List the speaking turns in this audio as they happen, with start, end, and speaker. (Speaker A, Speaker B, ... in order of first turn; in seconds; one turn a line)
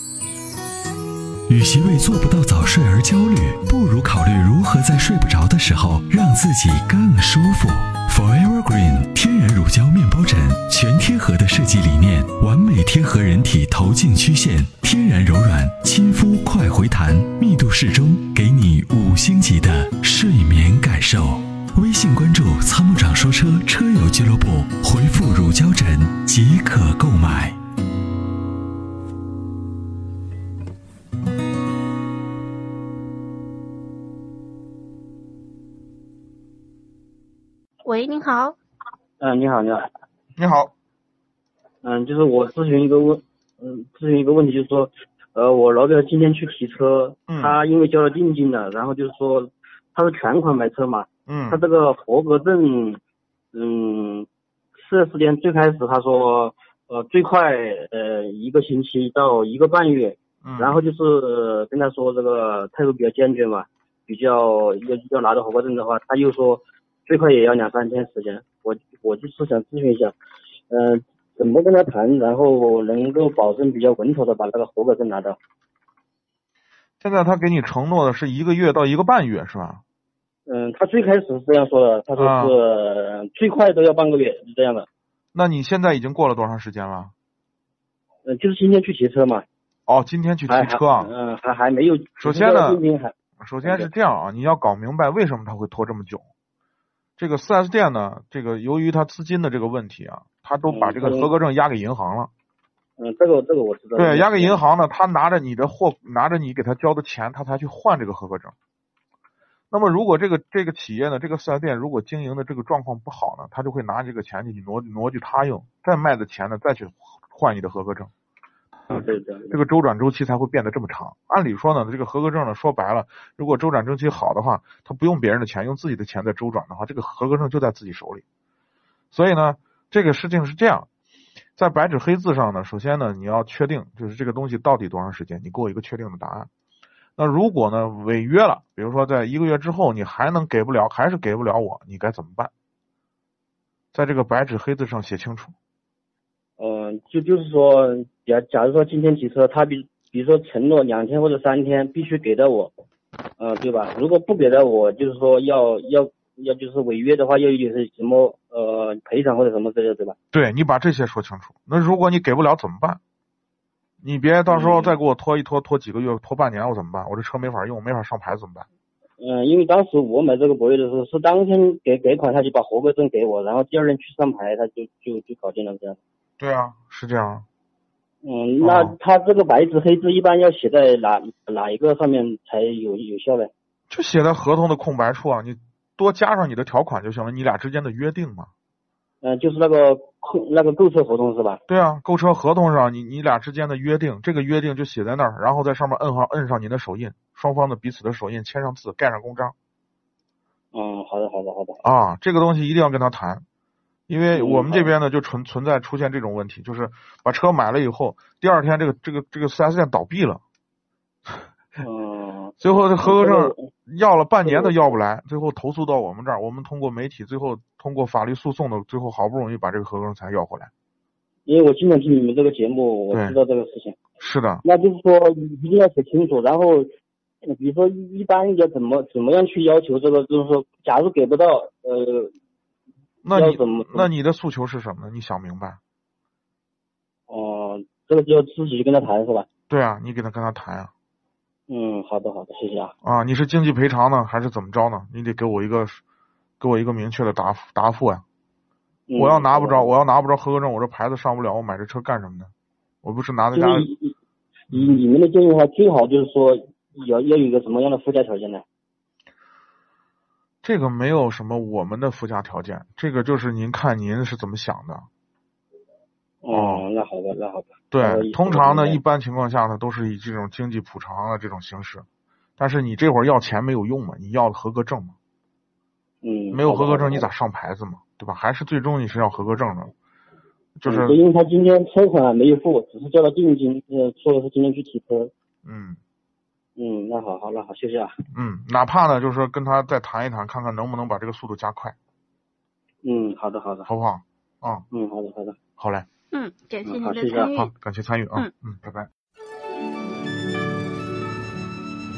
Speaker A: 1.5-27.6
Speaker B: 37.8-38.5
Speaker C: 39.2-39.9
Speaker D: 40.4-40.7
Speaker C: 41.8-53.0
Speaker D: 47.3-47.6
Speaker D: 51.3-51.6
Speaker C: 53.5-54.3
Speaker C: 54.8-70.1
Speaker D: 60.4-60.8
Speaker C: 70.7-75.4
Speaker D: 77.0-79.8
Speaker C: 80.5-84.9
Speaker D: 82.2-82.5
Speaker D: 85.3-87.1
Speaker C: 88.2-89.4
Speaker D: 89.9-91.1
Speaker C: 90.5-93.1
Speaker D: 92.2-92.8
Speaker D: 93.4-96.2
Speaker C: 93.6-93.9
Speaker D: 97.2-102.3
Speaker C: 100.7-101.3
Speaker C: 103.0-104.6
Speaker D: 104.0-108.5
Speaker D: 109.7-118.1
Speaker C: 118.9-119.6
Speaker D: 119.5-128.2
Speaker D: 129.1-130.9
Speaker D: 131.6-136.5
Speaker D: 137.2-142.5
Speaker D: 143.9-145.5
Speaker C: 146.6-152.7
Speaker C: 153.4-160.2
Speaker D: 160.3-163.0
Speaker D: 164.0-168.7
Speaker C: 164.5-165.0
Speaker C: 169.2-176.0
Speaker D: 176.4-177.4
Speaker C: 178.2-183.5
Speaker D: 178.6-178.9
Speaker D: 183.9-188.5
Speaker C: 189.2-191.6
Speaker D: 191.7-199.5
Speaker C: 200.7-201.8
Speaker D: 201.8-203.4
Speaker D: 204.1-210.4
Speaker C: 204.3-204.9
Speaker C: 211.8-213.7
Speaker D: 212.6-220.7
Speaker C: 214.4-214.9
Speaker C: 221.4-224.0
Speaker D: 223.1-223.4
Speaker D: 224.2-224.6
Speaker C: 224.6-226.9
Speaker C: 227.4-232.3
Speaker D: 233.2-235.8
Speaker C: 233.3-234.1
Speaker C: 237.3-239.5
Speaker D: 239.7-240.9
Speaker C: 241.7-242.9
Speaker D: 243.0-246.0
Speaker D: 246.6-248.2
Speaker C: 249.1-249.9
Speaker D: 249.2-252.5
Speaker D: 253.0-253.9
Speaker C: 253.5-254.1
Speaker C: 254.7-258.6
Speaker D: 254.7-255.0
Speaker D: 260.6-265.1
Speaker C: 266.4-269.0
Speaker D: 266.5-266.9
Speaker D: 267.9-272.1
Speaker D: 272.6-275.1
Speaker C: 276.2-277.3
Speaker D: 276.5-279.9
Speaker D: 280.8-281.2
Speaker C: 280.9-285.3
Speaker D: 285.6-286.0
Speaker C: 286.8-288.2
Speaker D: 288.3-291.9
Speaker C: 293.0-293.9
Speaker D: 293.9-294.9
Speaker C: 294.9-295.6
Speaker D: 295.8-296.1
Speaker B: 296.3-297.7
Speaker C: 296.8-297.6
Speaker D: 297.5-299.1